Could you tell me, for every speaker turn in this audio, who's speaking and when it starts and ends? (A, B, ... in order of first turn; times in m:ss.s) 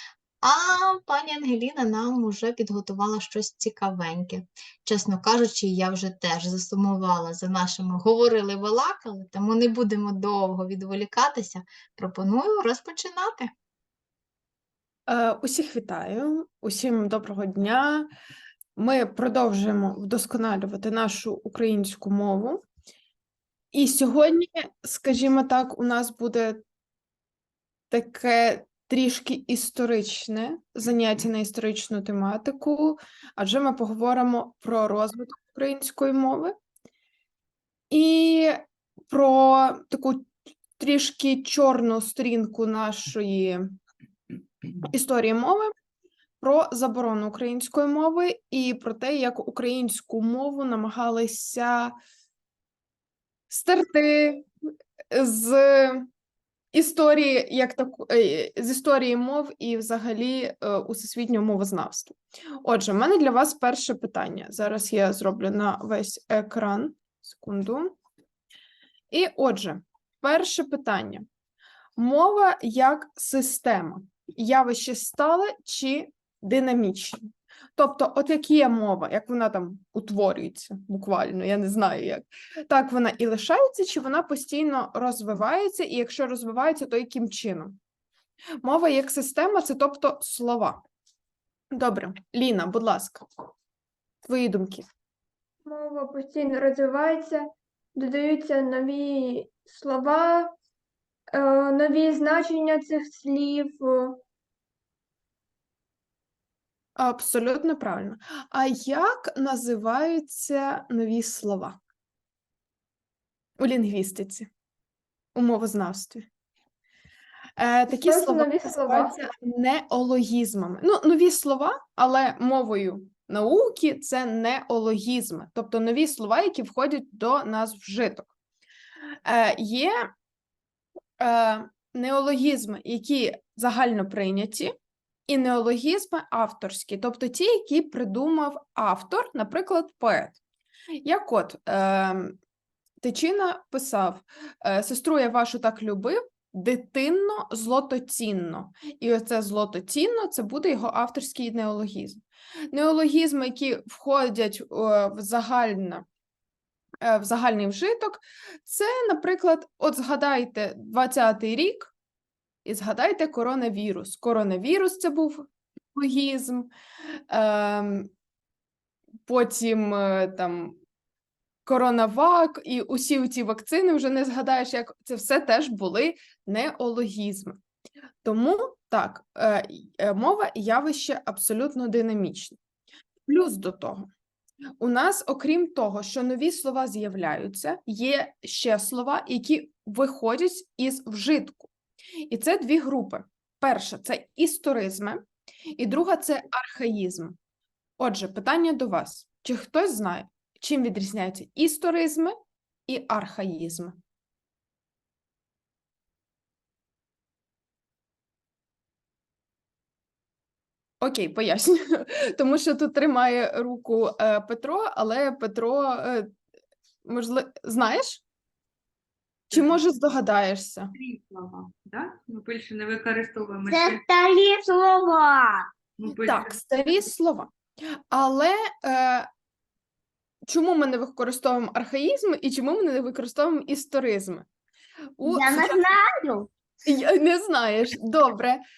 0:00.4-0:13.5 A
0:15.1-0:18.1 B
0:18.8-0:22.6 B
0:23.7-0:26.6 B
0:27.9-0:36.6 B
0:37.9-0:43.7 B
0:44.9-0:45.7 B
0:46.4-0:51.9 B
0:53.5-0:54.4 B
0:55.1-0:56.1 B
0:56.7-1:07.9 B
1:09.1-1:11.2 B
1:12.0-1:17.2 B
1:17.8-1:27.8 B
1:28.6-1:30.8 B
1:31.7-1:33.2 B
1:34.2-1:34.9 B
1:35.6-1:40.5 C
1:41.3-1:44.2 C
1:47.0-1:51.8 B
1:53.6-1:54.5 B
1:55.3-1:56.3 B
1:57.6-2:08.3 B
1:57.9-1:59.2 C
2:09.2-2:10.1 B
2:11.2-2:14.7 B
2:15.3-2:20.4 B
2:21.0-2:22.4 B
2:23.0-2:32.2 B
2:32.7-2:36.0 B
2:37.0-2:41.9 B
2:42.6-2:46.7 B
2:47.3-2:48.1 B
2:49.2-2:50.8 B
2:51.6-2:57.6 B
2:58.2-3:02.6 B
3:03.3-3:04.1 B
3:04.8-3:11.7 B
3:12.3-3:15.2 B
3:15.8-3:17.4 B
3:18.0-3:22.3 B
3:22.9-3:24.0 B
3:31.0-3:36.3 B
3:37.0-3:38.2 B
3:39.5-3:40.9 B
3:39.5-3:39.8 D
3:41.0-3:44.0 D
3:43.6-3:45.7 E
3:46.0-3:46.6 D
3:46.2-3:47.5 B
3:48.1-3:49.3 B
3:50.5-3:54.4 B
3:55.2-3:56.0 B
3:55.3-3:56.4 E
3:56.8-3:58.6 B